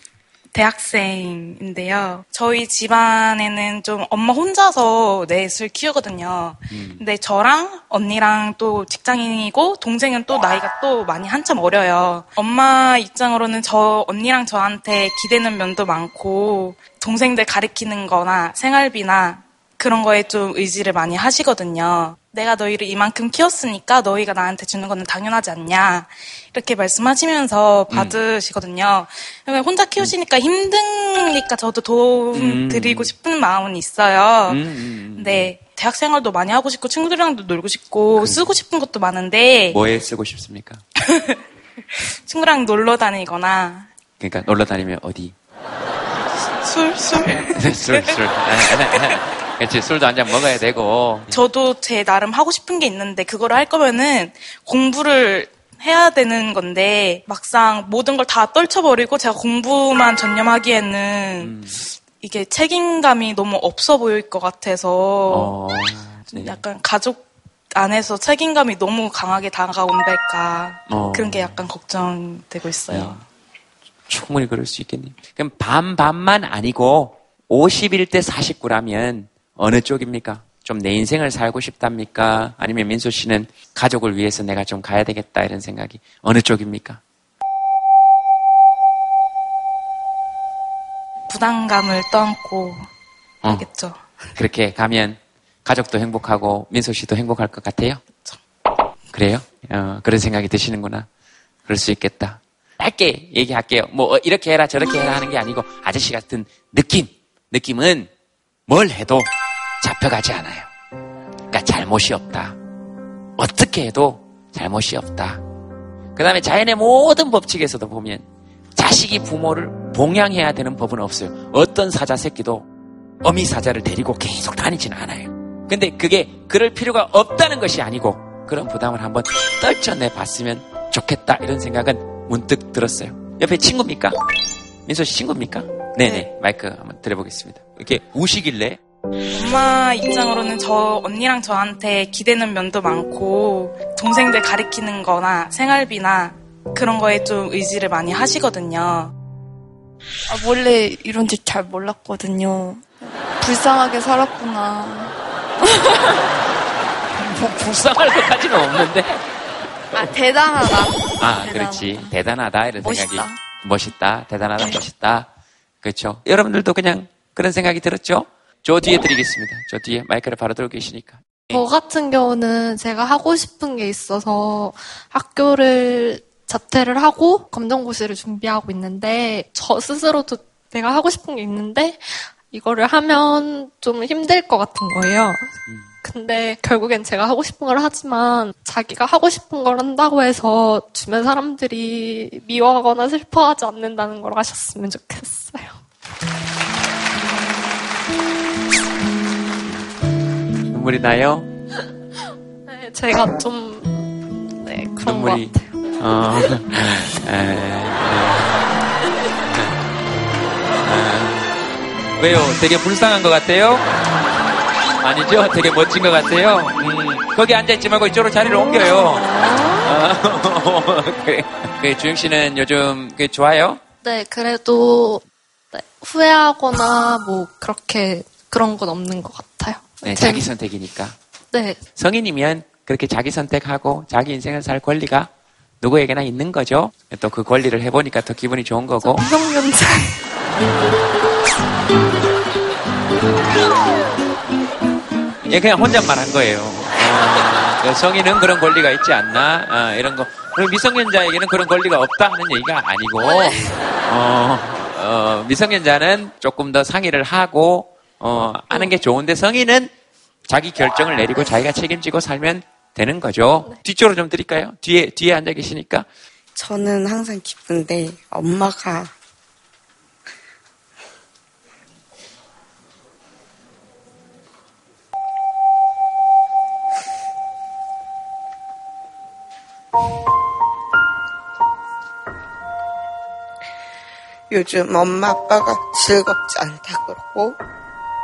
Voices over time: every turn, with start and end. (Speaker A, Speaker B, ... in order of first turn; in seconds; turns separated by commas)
Speaker A: 0.5-34.6, Speaker B: 6.7-7.0, Speaker B: 27.9-28.2, Speaker B: 32.3-33.1, Speaker B: 34.5-35.5, Speaker A: 35.1-39.8, Speaker B: 38.2-38.5, Speaker B: 39.7-40.8, Speaker A: 41.1-41.4, Speaker A: 42.1-43.9, Speaker B: 44.2-45.4, Speaker A: 46.5-48.1, Speaker B: 47.3-51.4, Speaker A: 51.3-65.6, Speaker B: 61.4-61.8, Speaker B: 65.3-66.6, Speaker A: 66.3-73.2, Speaker B: 70.9-71.6, Speaker B: 72.9-73.2, Speaker B: 74.1-87.0, Speaker A: 91.3-92.9, Speaker A: 93.5-94.0, Speaker B: 94.4-98.0, Speaker B: 99.1-101.1, Speaker B: 101.7-108.1, Speaker B: 108.7-109.3, Speaker B: 109.8-110.7, Speaker B: 111.5-112.6, Speaker B: 113.4-115.4, Speaker B: 116.2-122.7, Speaker B: 123.2-134.2, Speaker B: 134.9-138.8, Speaker A: 139.3-149.1, Speaker C: 150.3-155.1, Speaker C: 155.6-156.2, Speaker B: 157.2-159.2, Speaker C: 159.9-162.2, Speaker B: 161.2-165.3, Speaker C: 162.8-163.4, Speaker B: 165.8-171.7, Speaker D: 171.5-195.8, Speaker B: 200.7-201.5, Speaker D: 202.7-205.8, Speaker B: 205.0-208.7, Speaker B: 210.8-211.5, Speaker B: 212.2-213.9, Speaker B: 215.0-223.8, Speaker D: 224.0-230.5, Speaker B: 230.0-231.2, Speaker D: 231.5-231.8, Speaker B: 231.9-235.3, Speaker B: 235.8-239.3, Speaker C: 239.2-240.2, Speaker B: 245.5-259.9, Speaker C: 253.2-253.7, Speaker B: 260.5-266.1, Speaker E: 266.6-269.1, Speaker E: 284.5-287.6